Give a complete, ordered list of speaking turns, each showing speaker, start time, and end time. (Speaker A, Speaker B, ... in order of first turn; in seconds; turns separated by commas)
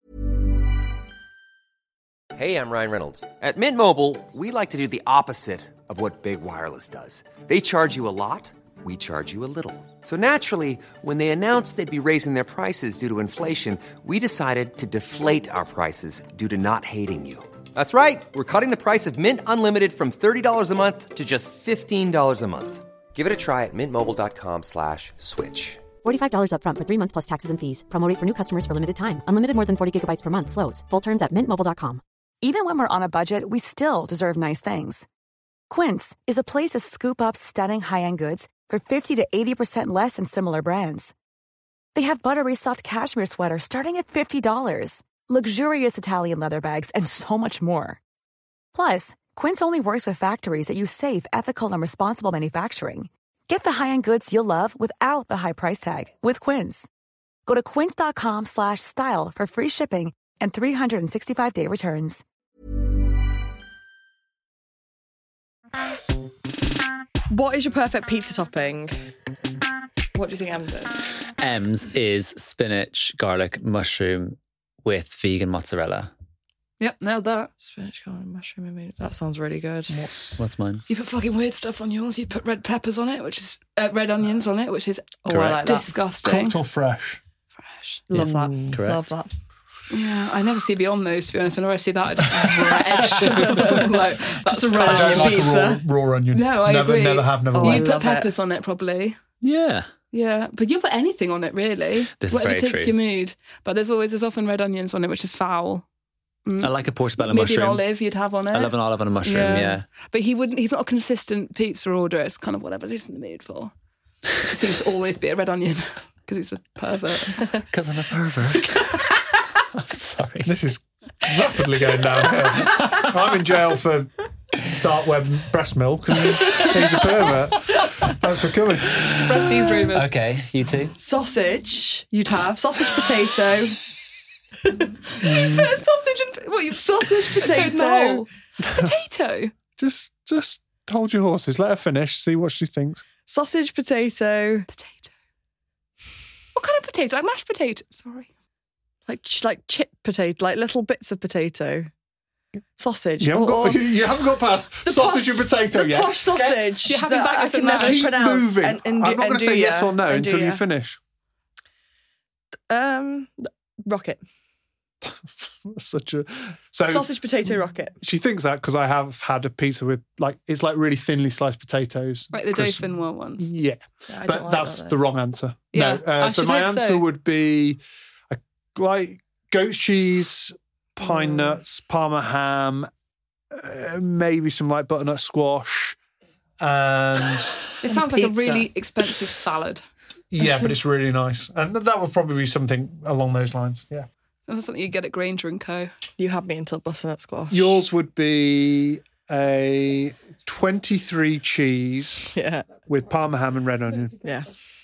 Speaker A: 2.4-25.8, Speaker B: 26.0-32.0, Speaker C: 32.4-35.1, Speaker C: 35.7-41.1, Speaker C: 42.0-48.0, Speaker C: 48.8-56.9, Speaker C: 57.5-62.2, Speaker D: 67.3-69.0, Speaker D: 70.1-71.0, Speaker E: 71.4-76.1, Speaker F: 76.8-77.5, Speaker D: 77.6-80.0, Speaker G: 79.9-80.4, Speaker E: 80.4-80.8, Speaker F: 80.9-85.1, Speaker D: 85.2-85.9, Speaker E: 85.3-85.8, Speaker F: 85.6-86.6, Speaker G: 86.2-87.2, Speaker F: 87.7-88.0, Speaker D: 88.1-89.3, Speaker G: 88.1-88.8, Speaker E: 88.7-89.1, Speaker F: 89.9-95.5, Speaker D: 94.5-95.8, Speaker G: 94.8-97.9, Speaker F: 96.3-99.2, Speaker D: 97.5-98.3, Speaker E: 99.4-99.9, Speaker F: 100.1-105.9, Speaker E: 102.2-102.9, Speaker F: 106.5-113.7, Speaker E: 106.6-107.8, Speaker E: 108.5-109.8, Speaker F: 114.4-117.5, Speaker E: 117.7-119.0, Speaker E: 119.7-120.5, Speaker G: 120.4-129.3, Speaker E: 122.7-123.0, Speaker F: 129.2-130.1, Speaker E: 129.9-131.0, Speaker D: 131.0-133.8, Speaker D: 134.6-134.9, Speaker F: 135.1-139.5, Speaker G: 135.2-135.8, Speaker D: 136.7-138.2, Speaker G: 138.6-138.9, Speaker G: 139.8-143.1, Speaker D: 143.3-144.7, Speaker F: 144.7-145.1, Speaker F: 146.6-148.3, Speaker D: 149.1-151.9, Speaker D: 152.8-153.9, Speaker G: 153.2-156.6, Speaker D: 154.8-160.6, Speaker F: 156.8-158.2, Speaker G: 157.8-161.0, Speaker D: 162.7-164.2, Speaker G: 165.0-182.9, Speaker D: 166.8-167.9, Speaker F: 172.3-173.5, Speaker D: 174.1-175.0, Speaker F: 175.7-177.1, Speaker D: 181.1-181.6, Speaker G: 183.5-186.0, Speaker G: 186.6-187.6, Speaker F: 187.8-189.8, Speaker D: 187.9-188.7, Speaker G: 190.3-194.1, Speaker F: 194.5-195.9, Speaker D: 196.2-197.8, Speaker G: 197.5-204.2, Speaker D: 202.3-202.8, Speaker D: 204.2-204.5